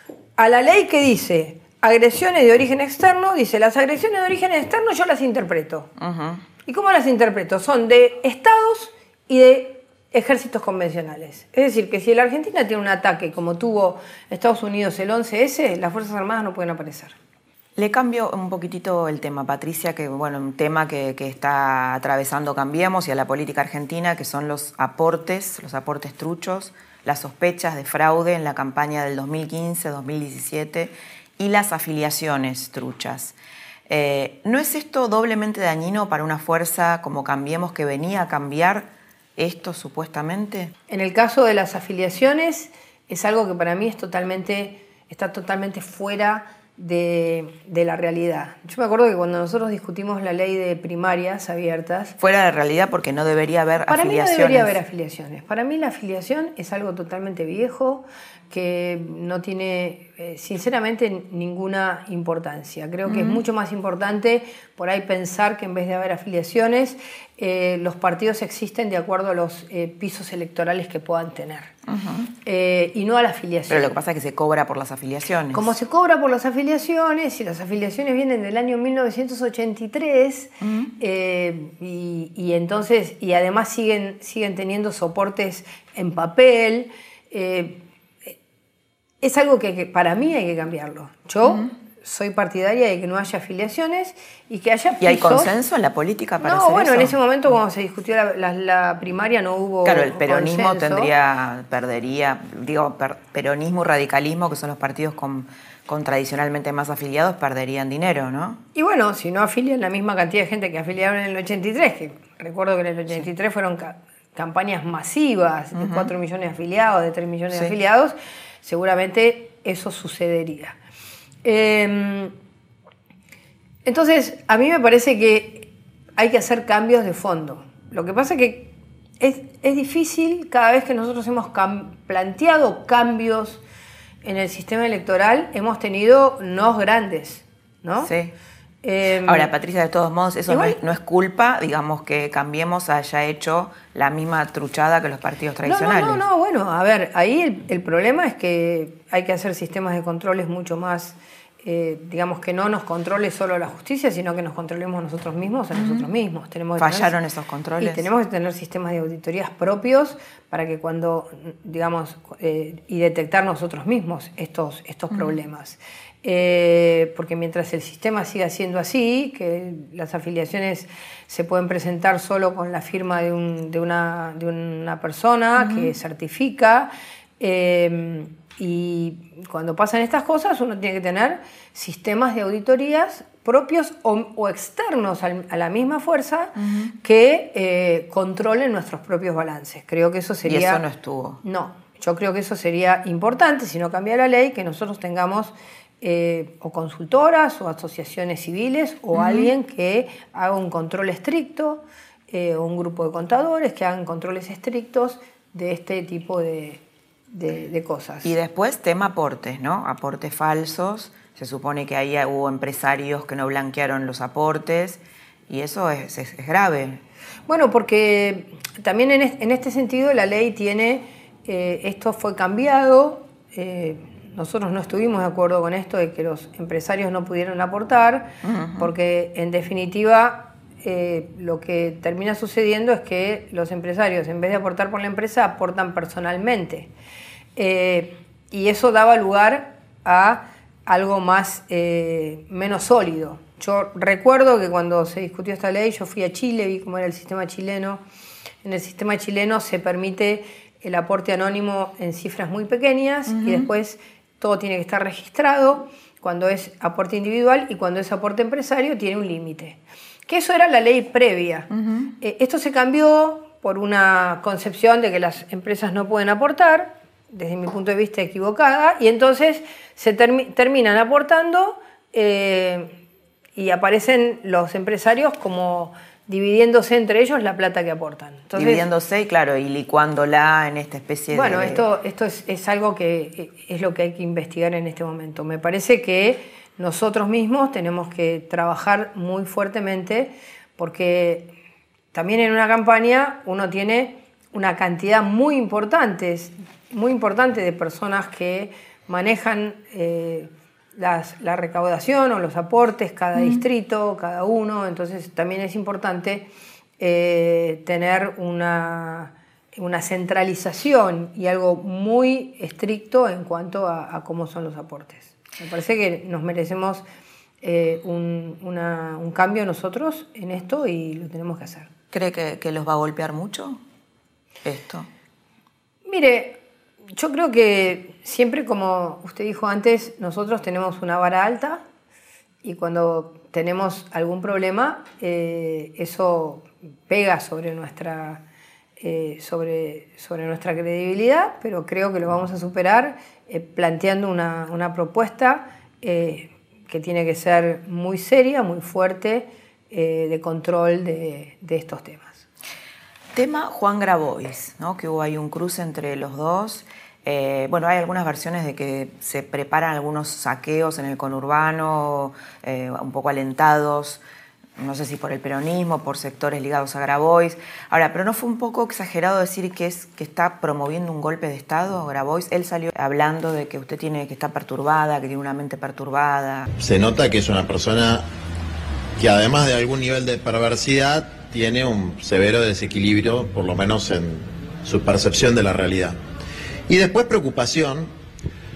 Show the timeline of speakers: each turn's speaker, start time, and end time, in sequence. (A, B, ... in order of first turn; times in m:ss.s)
0:00.4-0:05.9 A
0:06.0-0:06.4 B
0:06.7-0:17.2 A
0:17.8-0:33.4 B
0:33.9-0:40.7 B
0:40.9-0:52.2 A
0:52.2-0:54.8 B
0:53.9-1:11.7 A
1:03.1-1:03.4 B
1:11.9-1:12.3 B
1:12.4-1:13.9 A
1:13.7-1:15.7 B
1:15.5-1:27.8 A
1:20.6-1:20.9 B
1:29.2-1:35.5 A
1:35.0-1:37.2 B
1:36.4-1:41.1 A
1:39.8-1:48.6 B
1:48.8-2:00.8 A
1:55.8-1:56.1 B
2:01.4-2:02.3 A
2:03.8-2:13.6 A
2:14.2-2:18.1 A
2:18.0-2:18.3 B
2:18.8-2:19.5 A
2:19.2-2:26.2 B
2:20.5-2:20.8 A
2:25.6-2:37.1 A
2:36.8-2:38.1 B
2:37.8-3:10.8 A
2:55.6-2:55.9 B
3:10.4-3:11.4 B
3:11.4-3:28.3 A
3:19.1-3:19.5 B
3:28.2-3:37.0 B
3:37.5-3:56.9 A
3:48.4-3:48.9 B
3:57.6-4:08.0 A
4:08.6-4:33.0 A
4:13.4-4:13.6 B
4:33.6-4:38.9 A
4:38.6-4:41.8 B
4:41.3-4:51.5 A
4:52.1-5:17.0 A
5:17.6-5:21.9 A
5:22.1-5:23.8 B
5:24.6-5:25.1 B
5:26.1-5:26.6 A
5:27.2-5:31.8 A
5:32.6-5:38.4 A
5:39.0-5:52.5 A
5:53.4-6:04.2 B
6:04.8-6:16.7 B
6:16.8-6:18.2 C
6:19.2-6:26.2 C
6:26.9-6:28.1 C